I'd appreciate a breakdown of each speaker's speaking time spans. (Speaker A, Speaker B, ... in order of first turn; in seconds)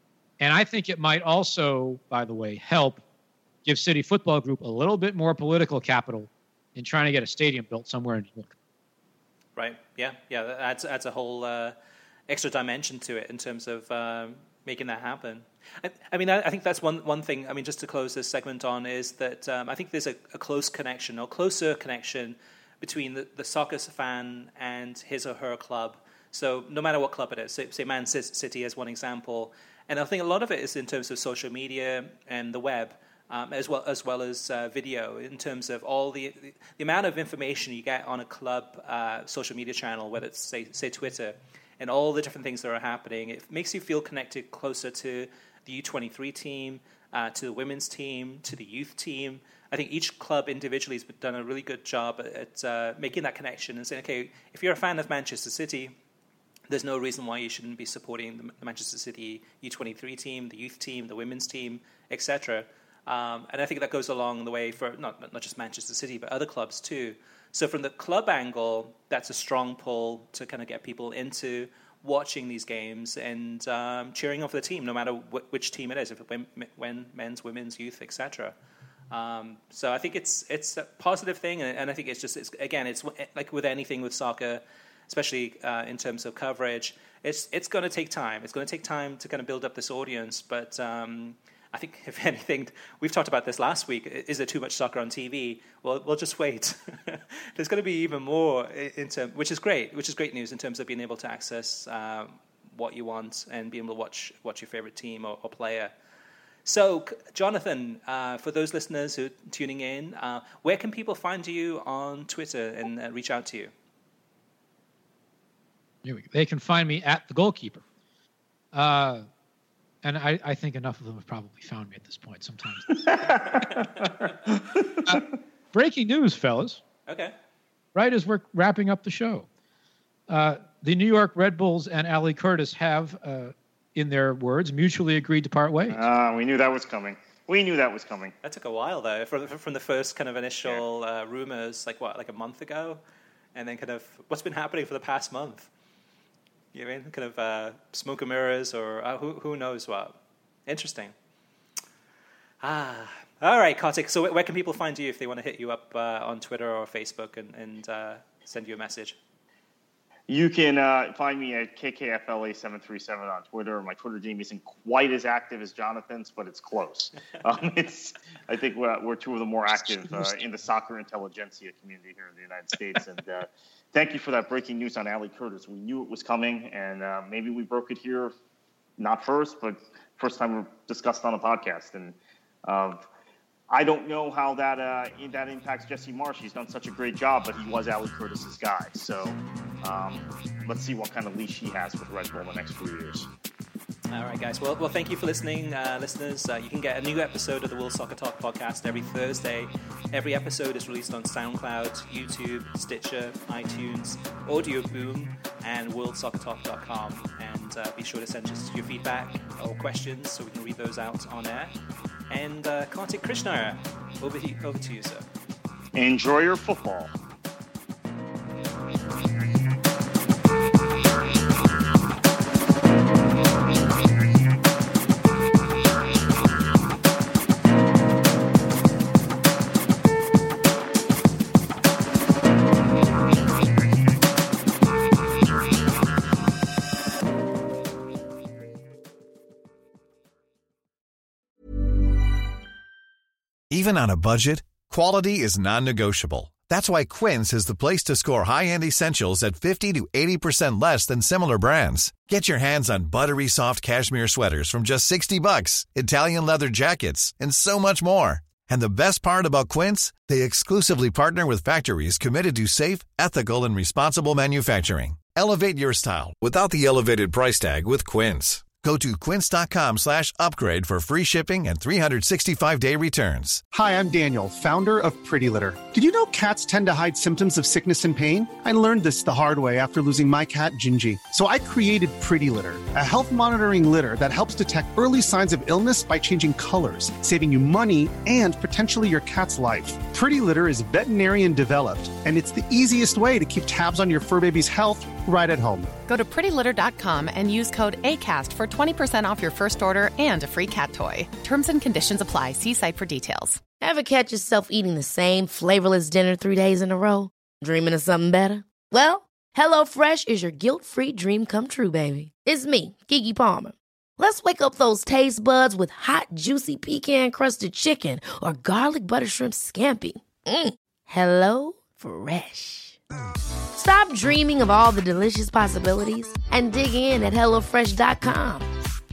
Speaker A: 0.4-3.0, 3.6-8.5, 116.0-117.8, 118.7-119.2, 120.0-123.0, 125.0-126.8, 127.9-129.5, 130.3-136.0
Speaker B: 9.6-11.7, 12.3-55.9, 56.7-78.5, 79.1-105.9, 106.6-113.7, 127.1-127.3, 138.4-143.0, 143.5-145.7, 146.7-151.1, 152.6-159.2, 194.1-211.7, 212.3-215.2
Speaker C: 135.9-138.3, 160.3-178.3, 179.0-183.1, 183.7-193.3, 215.9-217.1
Speaker D: 243.7-273.6
Speaker E: 273.7-295.9
Speaker F: 296.1-303.6
Speaker G: 303.8-323.0, 323.7-328.7